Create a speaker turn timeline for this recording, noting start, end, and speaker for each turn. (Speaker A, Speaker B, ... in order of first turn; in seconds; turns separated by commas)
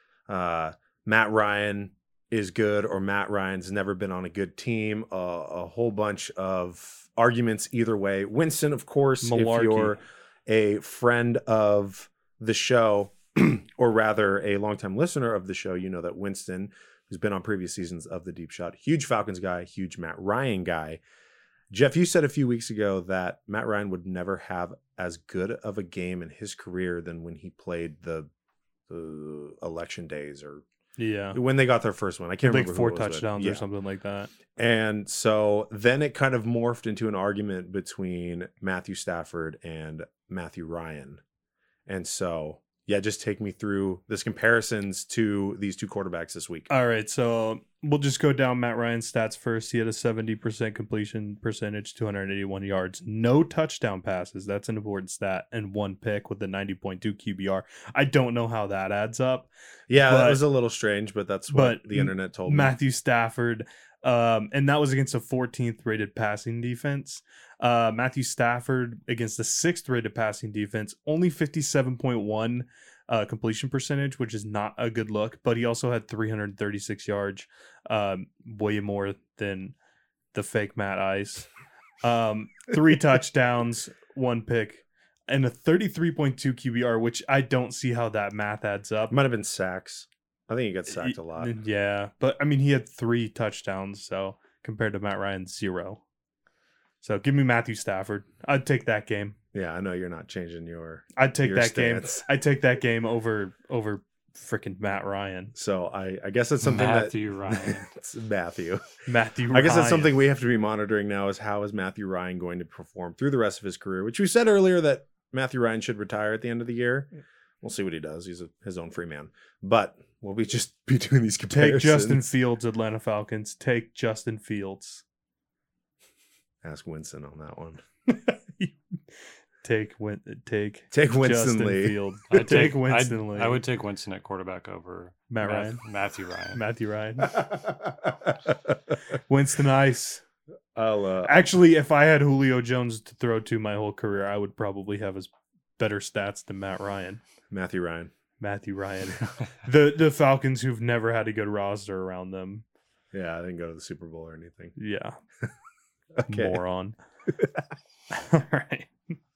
Speaker A: 0.3-21.0, Speaker B: 9.2-10.0, Speaker A: 21.7-28.3, Speaker A: 28.9-30.6, Speaker B: 31.0-31.4, Speaker A: 31.3-33.6, Speaker B: 32.4-34.3, Speaker A: 34.6-41.2, Speaker A: 41.9-46.7, Speaker B: 46.7-60.4, Speaker A: 59.9-62.8, Speaker B: 61.5-79.8, Speaker B: 80.3-81.5, Speaker B: 82.0-89.2, Speaker A: 89.1-91.5, Speaker B: 90.9-96.0, Speaker B: 97.0-99.4, Speaker A: 99.5-102.2, Speaker B: 101.2-105.5, Speaker A: 105.5-108.9, Speaker C: 106.6-107.9, Speaker B: 109.1-110.1, Speaker A: 109.5-117.1, Speaker A: 117.6-122.2, Speaker B: 121.5-125.0, Speaker A: 126.6-127.8, Speaker B: 128.1-128.8, Speaker B: 129.6-133.6, Speaker A: 130.9-132.0, Speaker C: 132.3-136.6, Speaker B: 135.3-135.8, Speaker B: 136.5-137.6, Speaker B: 139.3-140.2, Speaker A: 140.8-141.3, Speaker B: 141.2-147.2, Speaker A: 147.5-148.1, Speaker B: 148.4-152.6, Speaker A: 153.1-154.7, Speaker B: 154.8-155.2, Speaker A: 156.2-156.6, Speaker B: 156.3-157.0, Speaker B: 158.1-158.9